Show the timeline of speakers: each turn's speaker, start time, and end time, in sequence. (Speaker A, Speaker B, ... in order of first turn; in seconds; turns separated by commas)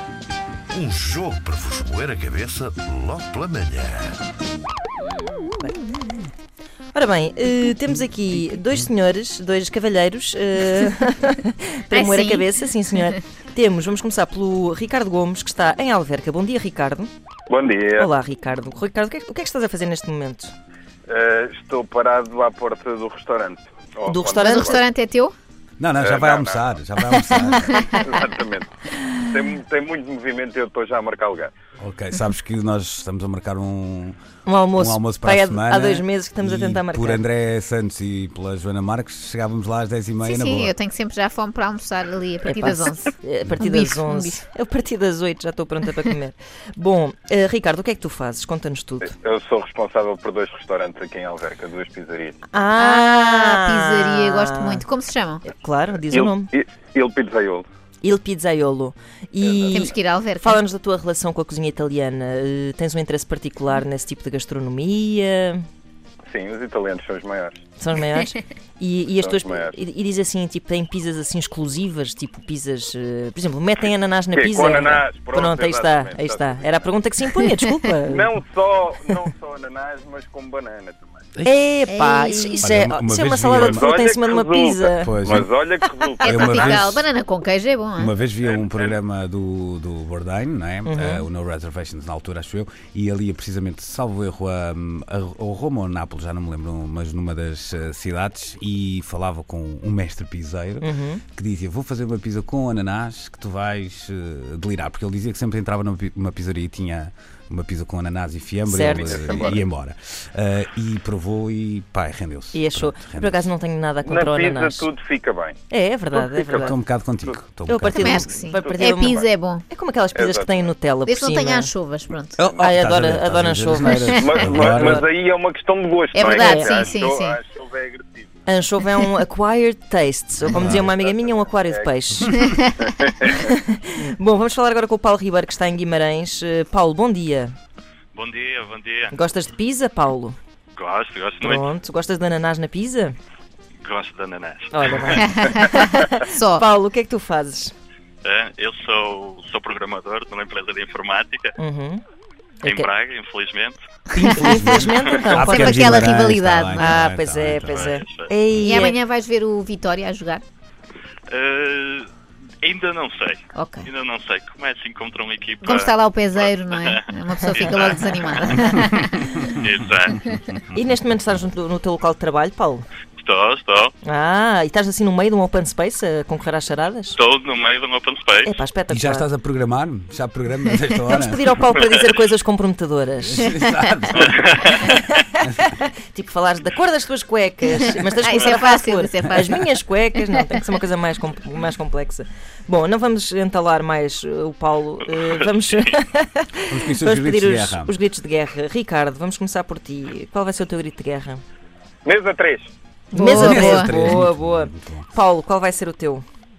Speaker A: 0.7-4.2, Speaker B: 5.4-5.8, Speaker B: 6.9-17.1, Speaker C: 11.9-12.4, Speaker D: 17.5-18.1, Speaker B: 18.0-20.5, Speaker D: 21.1-24.8, Speaker B: 24.1-24.8, Speaker C: 24.3-25.3, Speaker E: 25.8-28.0, Speaker D: 26.0-26.7, Speaker C: 27.2-28.1, Speaker D: 28.0-31.5, Speaker E: 31.8-34.2, Speaker B: 34.5-37.2, Speaker E: 34.8-40.7, Speaker C: 40.2-44.4, Speaker B: 42.4-49.1, Speaker D: 49.0-52.4, Speaker B: 52.5-54.9, Speaker C: 52.7-55.4, Speaker B: 55.5-56.5, Speaker D: 56.1-57.7, Speaker B: 58.0-65.7, Speaker D: 59.4-59.9, Speaker C: 59.7-60.6, Speaker D: 66.3-67.6, Speaker B: 67.8-78.3, Speaker D: 69.2-69.7, Speaker D: 74.3-76.9, Speaker D: 78.1-81.2, Speaker B: 81.5-85.1, Speaker C: 81.9-82.6, Speaker E: 82.6-83.8, Speaker D: 83.6-86.8, Speaker E: 85.0-85.5, Speaker C: 86.2-88.1, Speaker E: 86.3-87.1, Speaker E: 88.0-113.4, Speaker D: 88.4-89.0, Speaker B: 90.8-91.3, Speaker B: 100.8-101.2, Speaker B: 108.7-109.6, Speaker D: 108.9-109.6, Speaker B: 112.5-114.9, Speaker D: 114.0-115.6, Speaker B: 115.7-116.8, Speaker D: 116.1-116.7, Speaker E: 116.6-118.3, Speaker B: 117.7-121.7, Speaker C: 117.9-119.6, Speaker D: 118.5-119.2, Speaker D: 120.1-120.7, Speaker C: 121.0-122.5, Speaker E: 122.4-125.0, Speaker B: 122.6-125.0, Speaker C: 124.0-124.4, Speaker D: 124.2-128.4, Speaker C: 126.1-127.4, Speaker B: 126.3-126.8, Speaker B: 128.5-132.6, Speaker E: 130.6-130.8, Speaker D: 130.6-131.9, Speaker C: 132.3-132.8, Speaker D: 132.8-133.3, Speaker B: 133.2-137.6, Speaker F: 138.2-139.2, Speaker B: 139.1-140.4, Speaker F: 140.8-141.7, Speaker B: 141.4-143.2, Speaker F: 143.8-145.2, Speaker B: 144.7-147.7, Speaker C: 145.2-146.6, Speaker F: 148.2-151.5, Speaker B: 151.6-152.0, Speaker B: 152.6-152.9, Speaker F: 152.6-153.8, Speaker E: 154.1-157.9, Speaker C: 154.2-154.8, Speaker B: 154.3-156.1, Speaker C: 155.4-156.9, Speaker B: 156.8-159.0, Speaker F: 157.7-158.3, Speaker C: 158.6-160.4, Speaker F: 161.3-162.1, Speaker F: 162.6-168.4, Speaker C: 163.6-163.9, Speaker C: 165.6-169.4, Speaker F: 169.6-170.2, Speaker E: 169.6-170.6, Speaker B: 170.7-172.9, Speaker F: 173.2-173.9, Speaker B: 174.0-177.2, Speaker F: 177.2-178.5, Speaker B: 178.4-179.3, Speaker E: 178.9-181.6, Speaker B: 181.1-183.5, Speaker E: 183.2-184.6, Speaker F: 184.1-185.1, Speaker B: 184.8-201.4, Speaker C: 188.2-189.6, Speaker F: 195.2-195.9, Speaker E: 196.7-197.9, Speaker D: 202.1-202.7, Speaker C: 203.1-204.1, Speaker B: 203.1-206.2, Speaker E: 203.3-205.1